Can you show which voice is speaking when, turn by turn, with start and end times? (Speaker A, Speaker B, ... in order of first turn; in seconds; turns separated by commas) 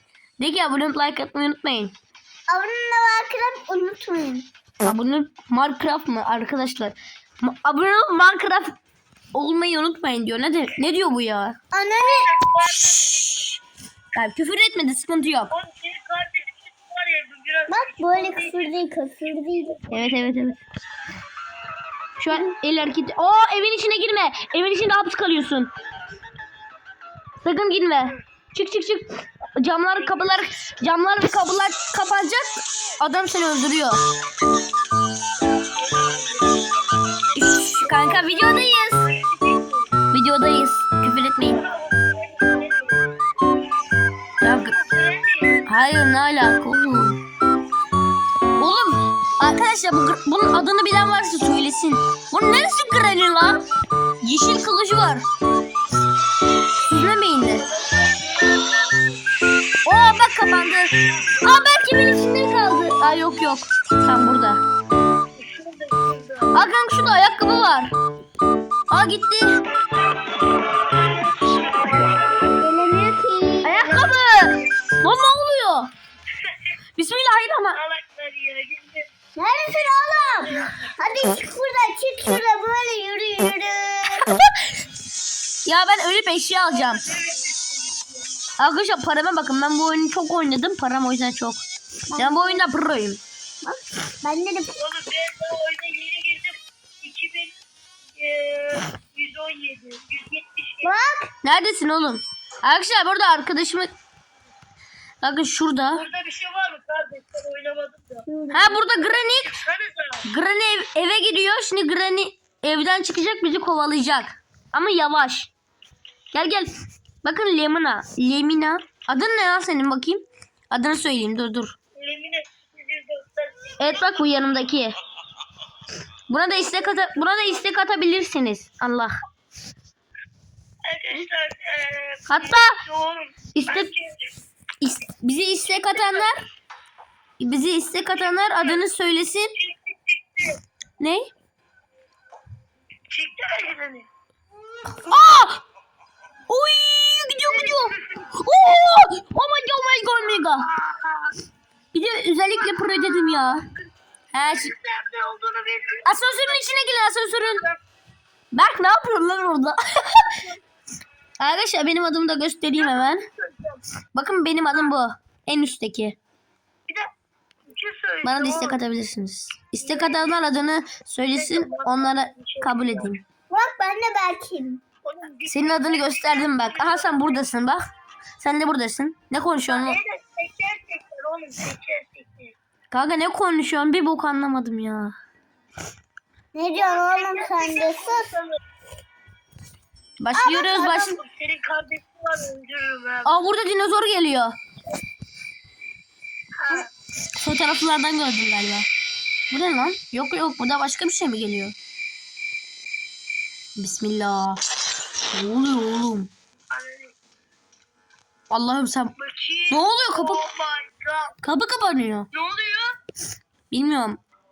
Speaker A: 0.4-1.9, Speaker B: 2.5-4.5, Speaker A: 4.8-8.8, Speaker A: 9.3-11.6, Speaker B: 11.7-12.3, Speaker C: 12.0-13.6, Speaker A: 14.1-15.5, Speaker C: 15.5-18.7, Speaker B: 17.7-19.8, Speaker C: 19.7-20.3, Speaker A: 19.9-20.6, Speaker A: 22.2-25.7, Speaker A: 27.4-34.0, Speaker C: 29.9-30.4, Speaker C: 35.8-36.6, Speaker A: 37.4-39.0, Speaker C: 37.6-39.9, Speaker A: 40.1-41.6, Speaker C: 41.5-43.0, Speaker A: 44.4-44.7, Speaker C: 44.5-45.6, Speaker A: 45.7-47.2, Speaker A: 48.6-53.6, Speaker A: 54.2-55.2, Speaker A: 56.9-57.7, Speaker C: 57.4-59.1, Speaker A: 59.9-64.6, Speaker C: 65.4-66.6, Speaker A: 66.5-68.0, Speaker A: 68.9-69.6, Speaker C: 69.8-72.6, Speaker B: 72.6-73.8, Speaker A: 73.6-75.9, Speaker C: 73.8-74.3, Speaker A: 77.0-77.8, Speaker C: 77.7-79.1, Speaker B: 79.4-84.3, Speaker C: 80.4-81.1, Speaker A: 85.7-87.0, Speaker C: 86.7-88.2, Speaker A: 88.6-91.6, Speaker B: 92.1-92.6, Speaker A: 92.2-93.2, Speaker B: 93.6-94.7, Speaker C: 94.8-97.5, Speaker C: 98.2-100.9, Speaker B: 100.8-101.3, Speaker A: 101.4-103.9, Speaker A: 105.2-106.0, Speaker C: 105.9-108.2, Speaker B: 108.3-108.9, Speaker A: 108.5-109.6, Speaker C: 109.0-110.2, Speaker A: 110.2-115.5, Speaker A: 116.3-121.8, Speaker C: 122.0-124.4, Speaker A: 123.8-124.9, Speaker A: 126.3-129.1, Speaker C: 126.5-127.7, Speaker C: 130.9-134.3, Speaker A: 132.3-132.8, Speaker A: 133.5-133.9, Speaker A: 134.8-136.4, Speaker C: 135.7-136.3, Speaker A: 137.4-139.5, Speaker C: 138.1-138.9, Speaker C: 139.6-140.6, Speaker A: 141.0-141.3, Speaker C: 143.1-144.1, Speaker A: 144.9-145.6, Speaker A: 146.5-150.7, Speaker C: 147.4-148.3, Speaker C: 150.3-151.3, Speaker A: 151.9-153.7, Speaker C: 152.6-156.7, Speaker A: 154.3-154.7, Speaker A: 156.1-157.6, Speaker C: 157.4-157.8, Speaker A: 158.5-160.4, Speaker A: 161.4-163.2, Speaker C: 162.8-163.8, Speaker A: 164.1-166.2, Speaker C: 164.7-165.0, Speaker C: 167.7-168.8, Speaker A: 168.2-173.2, Speaker C: 169.8-170.4, Speaker C: 171.3-173.2, Speaker B: 173.5-174.8, Speaker C: 175.0-177.4, Speaker A: 175.5-177.8, Speaker A: 178.4-180.0, Speaker C: 179.7-182.5, Speaker A: 182.9-185.2, Speaker B: 186.5-188.3, Speaker C: 186.7-188.6, Speaker A: 190.2-191.2, Speaker B: 190.3-191.2, Speaker C: 191.0-193.3, Speaker A: 193.2-194.6, Speaker C: 196.6-196.9, Speaker A: 197.4-198.9, Speaker A: 199.5-201.8, Speaker A: 203.8-204.6, Speaker A: 205.3-206.3, Speaker C: 206.7-207.1, Speaker A: 208.5-209.1, Speaker C: 209.2-211.3, Speaker A: 209.7-210.4, Speaker A: 211.4-212.3, Speaker C: 212.3-212.9, Speaker A: 213.7-214.2